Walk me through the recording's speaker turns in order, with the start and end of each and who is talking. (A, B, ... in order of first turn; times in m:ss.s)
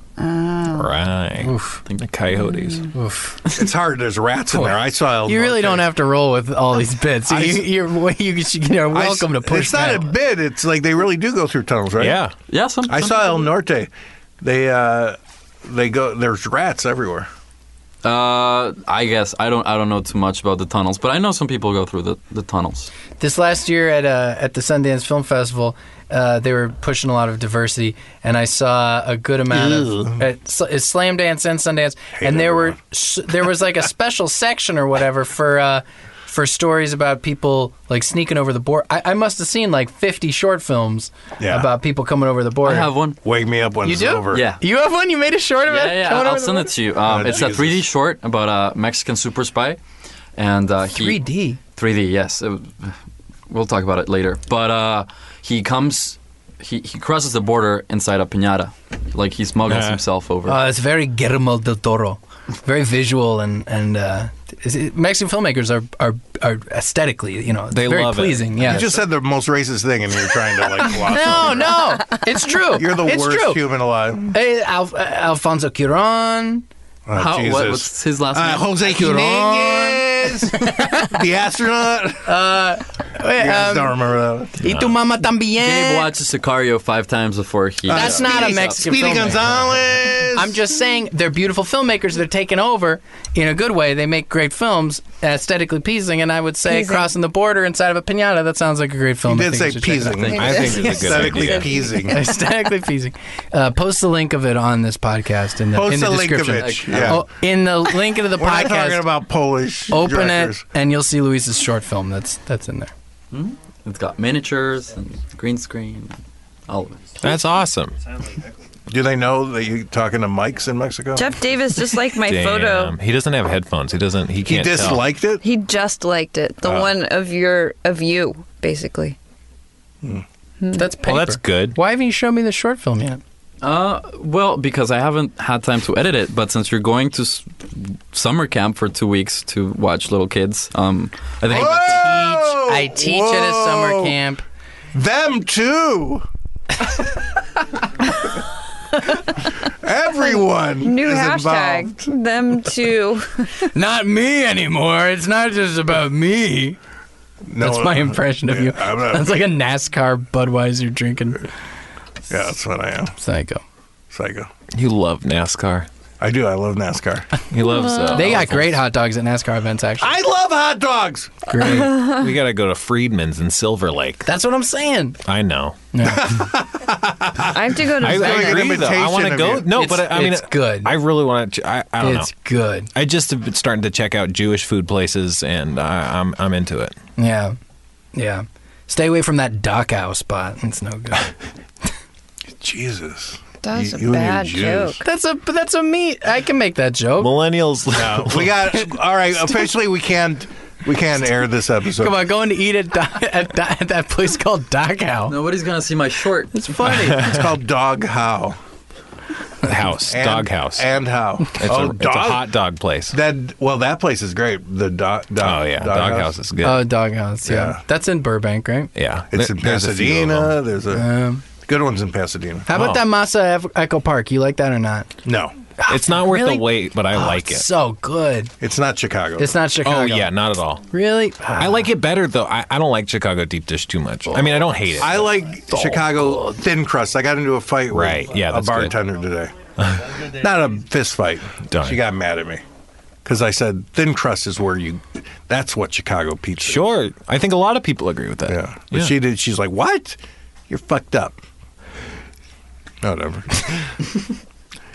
0:00.2-0:00.9 A
0:00.7-0:02.9 B
0:01.4-0:01.8 C
0:02.4-0:02.9 A
0:02.9-0:03.5 C
0:03.6-0:05.9 D
0:04.5-0:10.2 C
0:07.3-0:07.7 D
0:08.9-0:12.2 D
0:12.0-0:12.3 B
0:12.5-0:13.5 E
0:12.9-0:13.9 D
0:14.4-0:17.3 D
0:18.0-0:22.9 E
0:23.2-0:42.9 C
0:29.5-0:30.3 D
0:32.2-0:32.8 D
0:41.4-0:41.7 D
0:42.6-0:43.2 E
0:43.2-0:44.5 D
0:43.8-0:46.8 C
0:44.3-0:44.6 E
0:45.7-0:49.8 E
0:47.0-0:47.8 D
0:50.4-1:00.6 E
0:50.9-0:51.6 C
0:59.6-1:00.0 B
1:00.4-1:09.0 C
1:07.7-1:08.7 B
1:08.6-1:12.1 D
1:10.5-1:13.7 C
1:12.7-1:14.4 D
1:14.3-1:16.6 C
1:17.1-1:22.4 D
1:17.2-1:19.3 E
1:19.1-1:21.2 C
1:22.2-1:24.0 C
1:23.2-1:24.6 D
1:24.6-1:26.1 C
1:24.6-1:25.0 B
1:25.6-1:28.8 E
1:27.9-1:30.6 D
1:27.9-1:29.6 C
1:30.3-1:40.4 C
1:36.6-1:37.1 A
1:39.2-1:42.2 D
1:40.3-1:42.3 A
1:40.3-1:41.7 B
1:42.1-1:49.1 C
1:45.7-1:47.2 D
1:46.5-1:47.2 E
1:48.3-1:50.6 D
1:49.9-1:52.9 C
1:53.3-1:57.2 E
1:57.2-1:58.0 B
1:58.9-2:01.4 D
2:01.1-2:03.0 A
2:02.2-2:05.1 B
2:04.4-2:05.4 D
2:05.4-2:09.2 A
2:06.6-2:06.9 D
2:10.6-2:10.9 A
2:10.8-2:13.2 C
2:11.0-2:11.8 B
2:13.6-2:22.2 E
2:21.5-2:24.2 D
2:21.5-2:24.4 C
2:24.9-2:26.2 D
2:29.6-2:32.1 D
2:30.1-2:33.7 A
2:33.7-2:36.8 C
2:37.5-2:39.4 D
2:37.6-2:41.5 C
2:42.3-2:43.1 D
2:43.2-2:43.6 C
2:44.1-2:44.5 D
2:44.7-2:45.9 B
2:46.2-2:47.3 D
2:47.5-2:48.8 B
2:47.9-2:48.2 A
2:48.1-2:50.2 C
2:50.0-2:51.5 D
2:51.5-2:52.0 C
2:51.6-2:54.2 B
2:54.2-2:55.2 C
2:55.2-2:55.8 B
2:55.9-2:56.5 C
2:56.0-2:59.7 D
2:57.4-2:58.8 A
2:58.0-3:02.3 B
2:59.7-3:01.0 C
3:02.0-3:02.9 C
3:02.9-3:06.9 B
3:07.2-3:07.6 C
3:08.1-3:11.3 C
3:12.5-3:15.0 D
3:13.6-3:15.0 A
3:15.0-3:17.4 C
3:17.2-3:18.6 B
3:17.9-3:22.2 D
3:21.9-3:25.4 C
3:25.3-3:26.6 E
3:26.5-3:27.6 C
3:27.0-3:28.6 D
3:29.6-3:30.9 B
3:30.0-3:32.5 D
3:31.6-3:33.2 B
3:33.1-3:36.4 D
3:35.4-3:36.9 B
3:36.6-3:38.9 C
3:37.4-3:37.8 D
3:38.9-3:40.6 B
3:39.3-3:41.1 D
3:40.9-3:41.4 C
3:41.6-3:42.7 D
3:42.7-3:45.1 C
3:42.7-3:43.0 B
3:45.2-3:45.6 D
3:45.8-3:48.5 C
3:45.9-3:47.7 B
3:48.6-3:49.6 D
3:49.4-3:50.4 C
3:49.8-3:50.8 B
3:50.9-3:51.6 C
3:51.4-3:51.8 D
3:51.6-3:55.4 B
3:54.3-3:55.2 C
3:55.0-3:59.6 D
3:55.7-3:56.6 C
3:57.9-3:59.0 B
3:59.8-4:00.2 B
4:00.1-4:02.6 D
4:01.7-4:02.0 B
4:03.2-4:06.9 D
4:06.6-4:09.1 B
4:08.5-4:11.4 D
4:13.0-4:14.0 D